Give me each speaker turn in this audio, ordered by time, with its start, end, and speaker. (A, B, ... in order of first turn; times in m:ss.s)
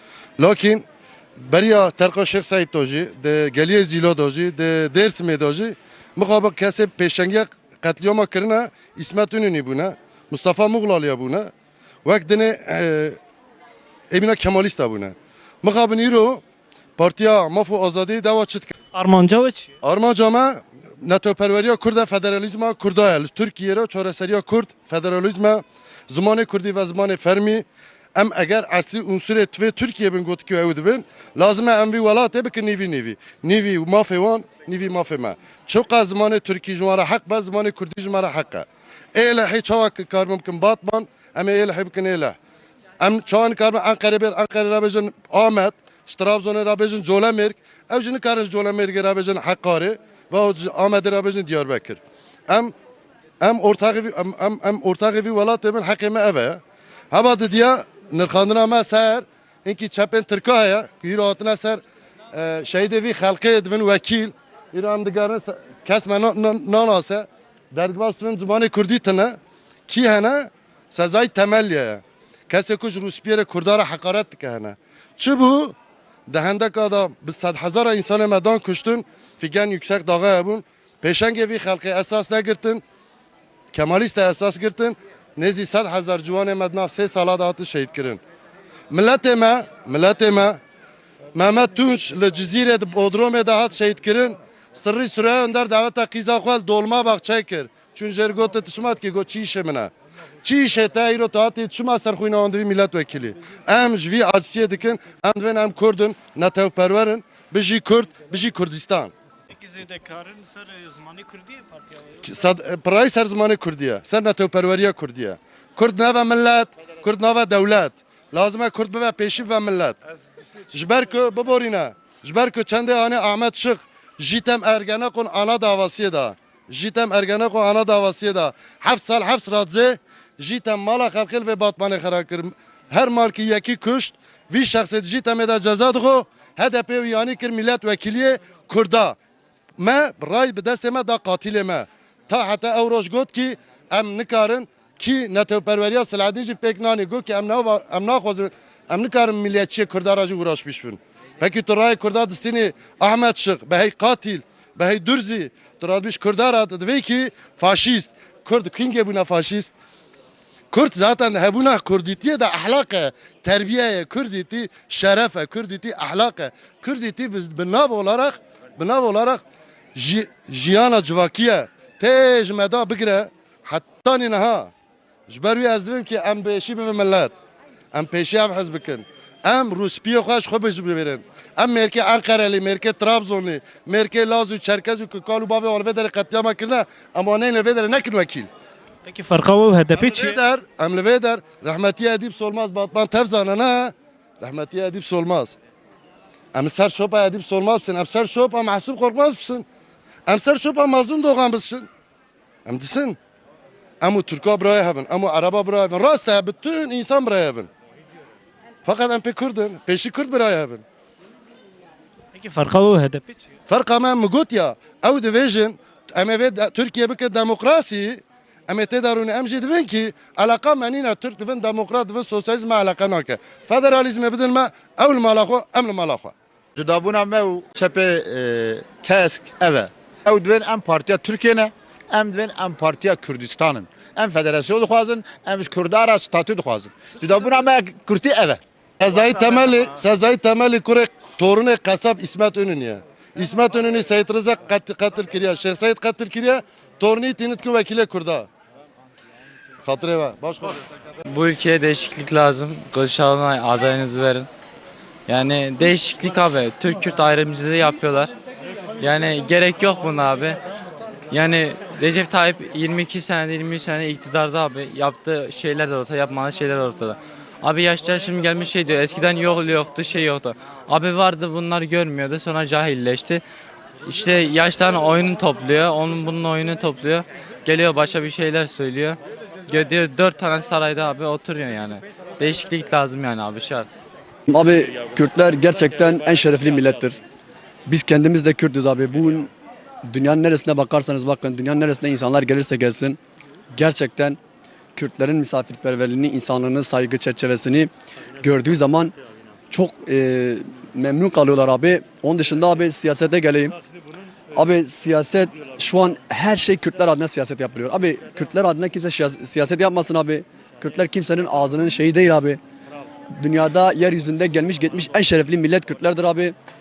0:00.4-0:00.8 A
0:01.4-0:11.5 A
0:12.0-0:13.2 A
0:14.1-0:16.4 A
0:17.0-0:18.7 A
0:18.9-0:19.7 B
0:19.8-0:42.4 A
0:43.0-0:52.7 A
0:53.4-1:01.8 A
1:02.3-1:09.4 A
1:09.9-1:15.8 A
1:16.3-1:22.8 A
1:23.7-1:28.2 A
1:28.9-1:30.6 A
1:31.3-1:39.9 A
1:40.4-1:49.1 A
1:49.5-1:52.0 B
1:52.2-2:00.0 A
2:00.7-2:19.2 A
2:19.8-2:39.7 A
2:40.7-2:49.4 A
2:50.0-2:54.7 A
2:55.3-2:57.3 A
2:57.9-3:08.5 A
3:09.0-3:10.4 B
3:10.0-3:15.6 A
3:16.5-3:19.6 A
3:20.3-3:21.9 A
3:22.6-3:23.2 A
3:24.0-3:27.7 A
3:28.8-3:30.8 A
3:32.3-3:33.4 B
3:33.7-3:46.3 A
3:46.8-3:58.6 C
3:59.0-4:08.5 A
4:09.8-4:10.8 A
4:11.3-4:14.5 D
4:15.3-4:18.3 D
4:19.0-4:20.6 D
4:21.3-4:33.4 D
4:34.0-4:43.9 D
4:44.5-4:47.2 E
4:47.9-4:49.5 E
4:50.1-4:53.2 E
4:53.7-4:54.4 E
4:54.9-4:59.1 E
4:59.7-5:03.8 E
5:04.5-5:12.6 E
5:13.3-5:16.5 E